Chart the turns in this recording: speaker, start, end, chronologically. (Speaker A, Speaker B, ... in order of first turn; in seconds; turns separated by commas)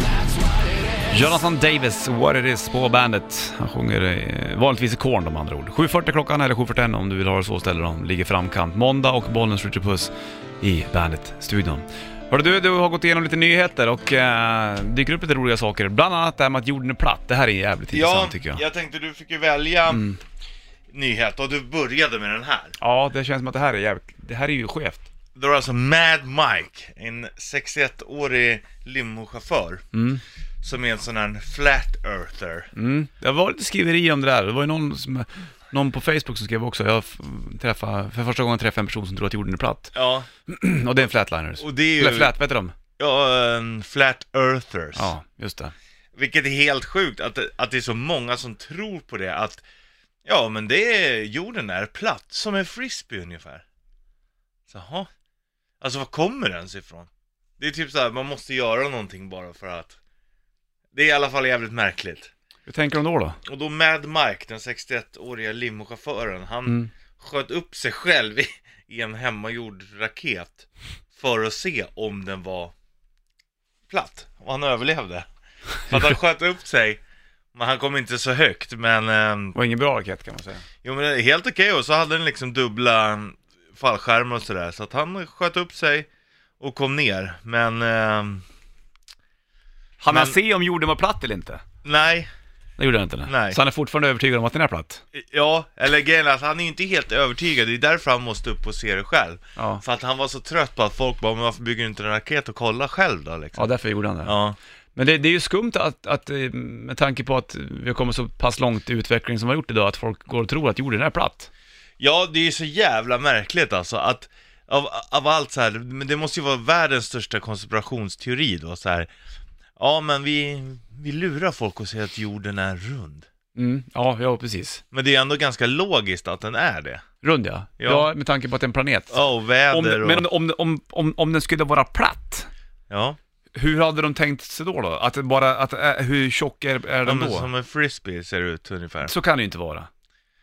Speaker A: 1.1-18.6, Speaker B: 17.9-20.1, Speaker A: 19.9-20.2, Speaker B: 20.9-22.8, Speaker A: 22.8-25.1, Speaker B: 25.4-29.9, Speaker A: 29.9-30.2, Speaker B: 30.6-32.7, Speaker A: 32.7-40.0, Speaker B: 39.9-40.3, Speaker A: 40.5-42.7, Speaker B: 41.0-42.3, Speaker B: 43.0-45.1, Speaker A: 45.0-45.7, Speaker B: 46.1-49.6, Speaker B: 50.2-53.6, Speaker B: 54.7-55.1, Speaker B: 55.8-60.0, Speaker B: 60.9-62.3, Speaker A: 62.7-63.4, Speaker B: 63.5-72.7, Speaker B: 73.9-75.3, Speaker B: 75.9-77.0, Speaker B: 77.5-79.6, Speaker A: 79.5-80.7, Speaker B: 80.8-86.1, Speaker B: 86.6-88.4, Speaker A: 90.0-91.6, Speaker B: 90.1-90.4, Speaker B: 91.8-92.3, Speaker A: 92.8-95.0, Speaker B: 93.3-93.6, Speaker B: 95.1-103.7, Speaker A: 99.6-99.8, Speaker A: 103.6-104.3, Speaker B: 104.2-104.6, Speaker A: 105.0-111.5, Speaker B: 112.0-119.1, Speaker B: 119.8-123.3, Speaker A: 123.5-124.8, Speaker B: 124.9-127.0, Speaker A: 127.2-132.5, Speaker B: 127.8-128.1, Speaker B: 129.1-130.3, Speaker B: 132.9-133.2, Speaker A: 133.6-137.5, Speaker B: 137.1-139.1, Speaker A: 139.0-139.9